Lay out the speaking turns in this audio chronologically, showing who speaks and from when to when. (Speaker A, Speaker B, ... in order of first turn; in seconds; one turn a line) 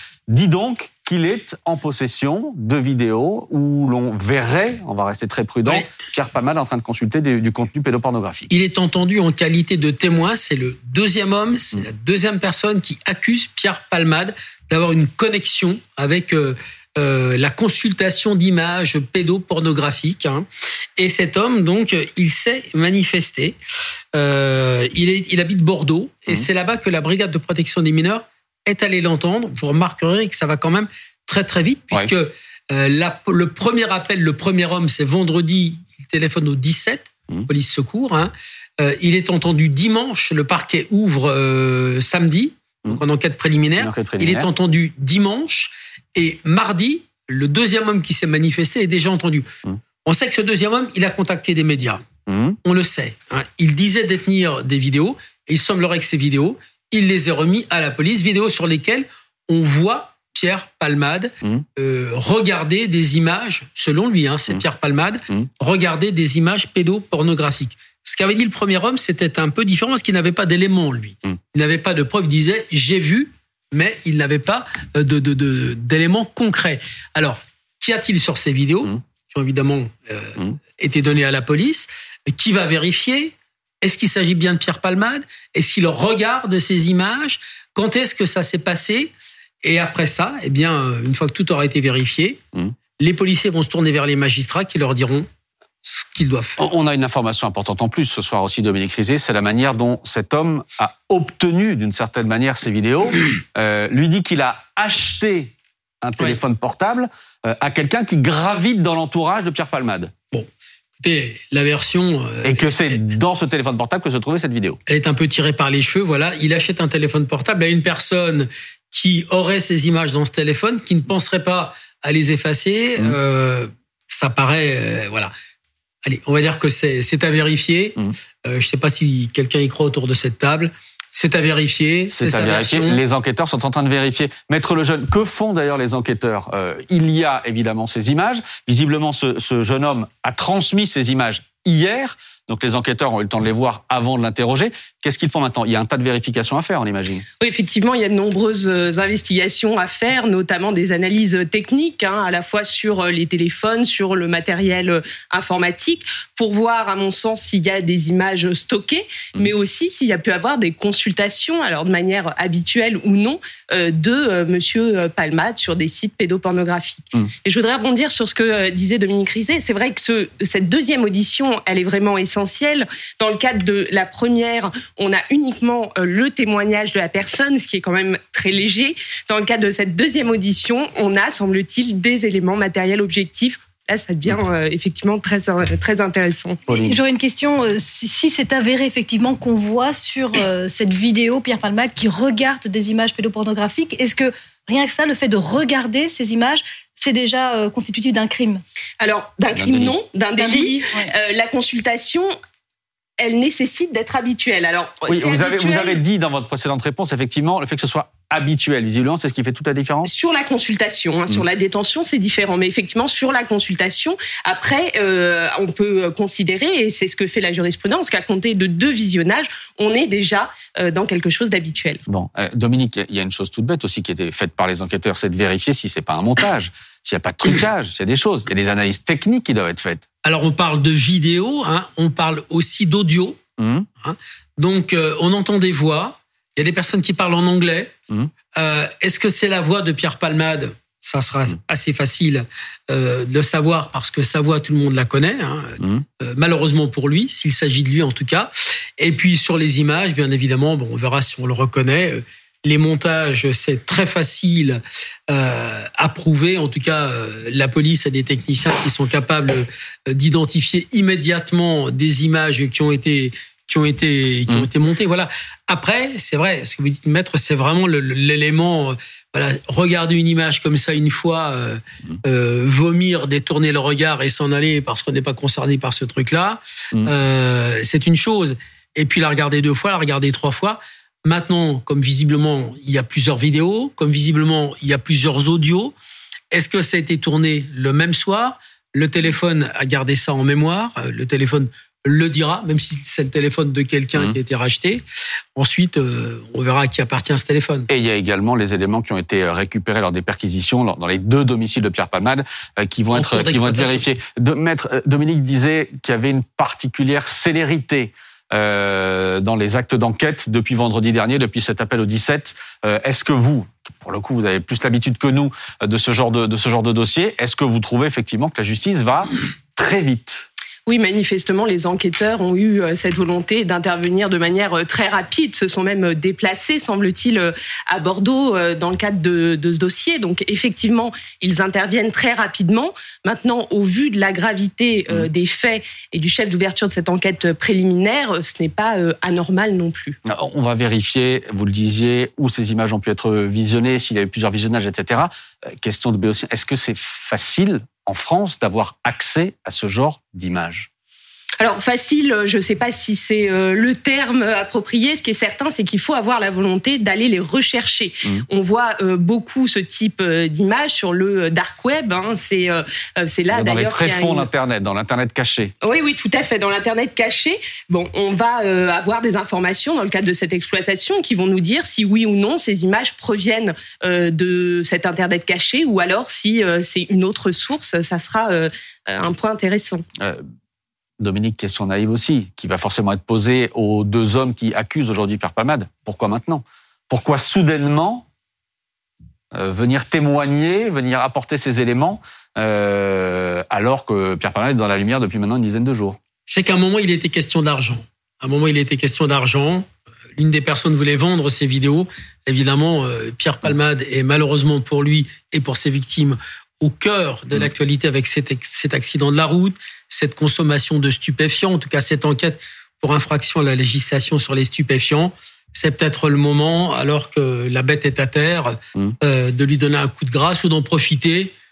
Speaker A: 0.3-8.5
Speaker B: 5.7-5.9
Speaker B: 8.5-23.6
Speaker B: 24.1-49.5
Speaker A: 43.8-44.5
Speaker B: 50.0-52.0
Speaker A: 52.3-52.6
Speaker B: 52.6-89.1
Speaker B: 89.6-92.4
Speaker B: 93.0-95.3
Speaker B: 95.8-96.6
Speaker A: 96.6-110.1
Speaker B: 111.0-113.0
Speaker A: 112.4-114.8
Speaker B: 114.9-125.3
Speaker B: 126.0-133.0
Speaker A: 132.1-147.2
Speaker C: 147.4-186.9
Speaker D: 186.7-198.6
Speaker C: 199.0-202.3
Speaker A: 199.6-199.9
Speaker D: 200.4-201.0
Speaker C: 203.2-206.0
Speaker A: 205.1-210.1
Speaker C: 210.1-222.0
Speaker A: 222.1-230.0
Speaker B: 230.2-233.4
Speaker A: 233.6-233.9
Speaker B: 234.0-237.9
Speaker B: 238.6-285.9
Speaker B: 286.5-295.0
Speaker B: 295.6-297.9
Speaker A: 297.9-320.5
Speaker B: 303.1-304.1
Speaker C: 320.9-340.2
Speaker A: 340.2-350.9
Speaker C: 351.6-364.5
Speaker A: 363.5-365.7
Speaker C: 365.8-380.0
Speaker A: 381.2-388.3
Speaker A: 389.5-396.2
Speaker B: 396.5-421.5